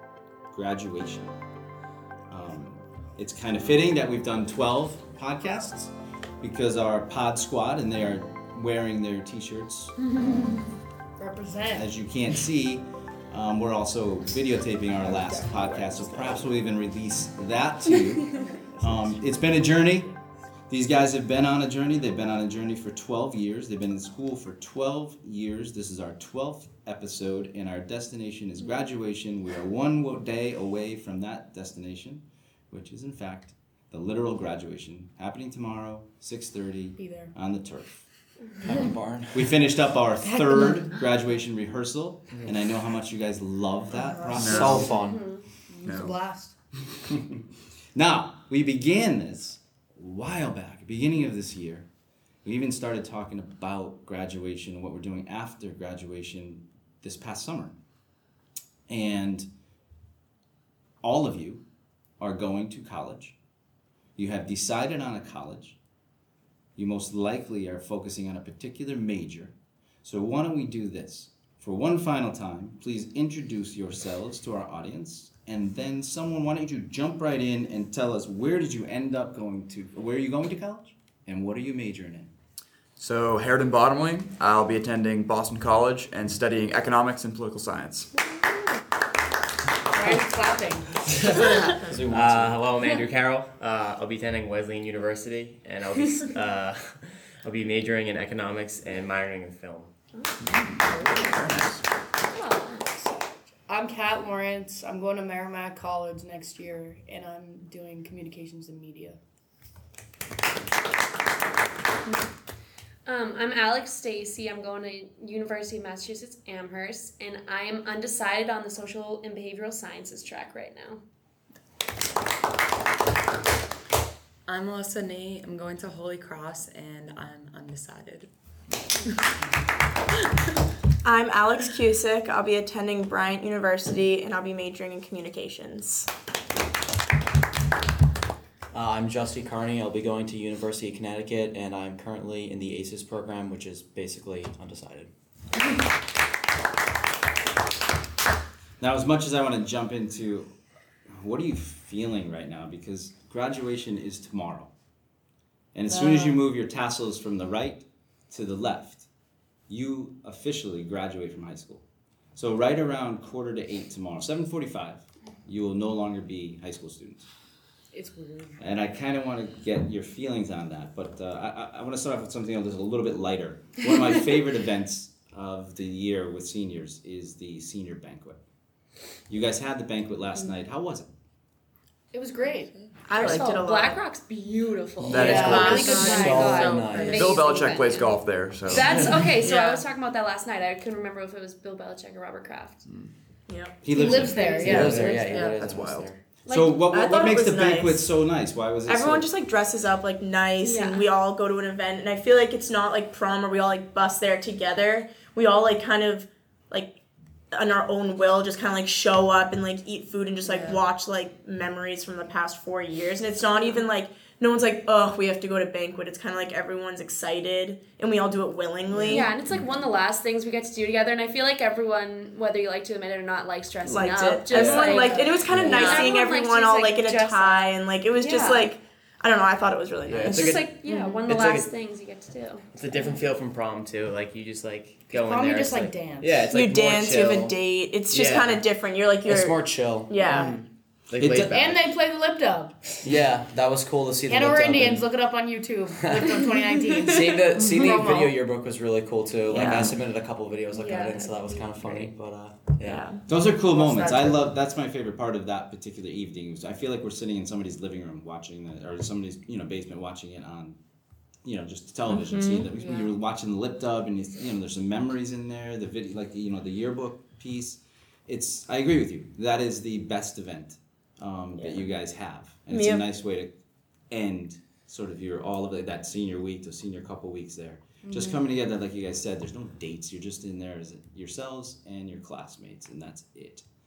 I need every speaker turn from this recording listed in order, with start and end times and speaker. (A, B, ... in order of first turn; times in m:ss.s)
0:00.5-0:01.4 A
0:02.3-0:10.1 A
0:11.2-0:11.9 B
0:11.7-0:20.1 A
0:15.2-0:16.4 C
0:18.3-0:20.2 B
0:20.7-0:38.0 A
0:37.0-0:37.3 B
0:38.6-0:39.5 D
0:39.3-0:44.9 A
0:40.2-0:40.9 B
0:43.9-0:44.8 B
0:44.4-0:45.3 D
0:44.4-0:44.8 E
0:44.8-0:45.4 F
0:45.7-0:46.6 B
0:45.8-0:46.1 E
0:48.0-0:51.9 A
0:52.4-0:57.8 A
0:58.9-0:59.5 A
1:01.0-1:01.6 A
1:02.2-1:03.4 A
1:04.2-1:05.8 A
1:06.8-1:22.3 A
1:23.0-1:28.1 E
1:29.9-1:31.0 B
1:31.1-1:31.4 G
1:31.2-1:32.6 D
1:32.1-1:39.9 G
1:40.4-1:41.8 E
1:42.3-1:42.9 F
1:43.7-1:49.2 B
1:53.0-2:01.0 F
2:04.5-2:08.3 H
2:11.0-2:16.1 C
2:18.7-2:25.1 D
2:28.8-2:30.5 A
2:31.1-2:34.7 A
2:35.7-2:39.1 A
2:36.1-2:36.4 B
2:39.7-2:41.8 A
2:42.4-2:47.3 A
2:47.9-2:48.6 B
2:48.6-2:58.4 A
2:59.3-3:01.1 A
3:02.1-3:02.8 B
3:02.5-3:02.9 H
3:03.1-3:04.0 C
3:03.1-3:12.8 F
3:05.0-3:07.3 D
3:05.1-3:06.0 E
3:05.1-3:05.9 B
3:05.4-3:07.5 H
3:07.1-3:09.0 E
3:08.8-3:09.3 D
3:09.4-3:09.8 H
3:13.5-3:13.8 C
3:13.8-3:15.0 A
3:13.9-3:15.4 B
3:14.6-3:16.2 D
3:15.2-3:15.6 H
3:15.6-3:16.1 E
3:16.5-3:16.9 F
3:16.5-3:19.3 A
3:16.9-3:18.1 C
3:18.9-3:26.9 C
3:20.6-3:21.1 F
3:27.5-3:39.3 C
3:30.5-3:30.8 F
3:33.5-3:33.8 F
3:39.1-3:48.7 F
3:43.8-3:51.2 C
3:44.6-3:44.9 G
3:44.9-3:45.3 B
3:45.5-3:45.8 D
3:45.6-3:45.8 G
3:50.1-3:50.7 G
3:50.3-3:53.1 F
3:51.3-3:51.7 G
3:52.7-3:57.6 G
3:55.1-3:56.5 B
3:56.5-4:00.5 C
3:58.1-3:58.6 G
3:59.3-4:00.1 D
4:00.2-4:01.9 G
4:00.3-4:00.6 B
4:01.2-4:01.6 A
4:01.5-4:02.8 B
4:03.0-4:05.1 D
4:04.3-4:08.4 B
4:06.0-4:06.4 D
4:07.1-4:13.1 D
4:09.5-4:10.0 A
4:10.7-4:12.1 F
4:12.8-4:13.2 C
4:13.3-4:20.8 A
4:13.5-4:14.5 B
4:21.4-4:33.5 A
4:22.4-4:22.7 H
4:22.7-4:23.1 B
4:31.6-4:31.9 C
4:32.7-4:33.1 C
4:34.1-4:43.6 A
4:38.0-4:38.5 B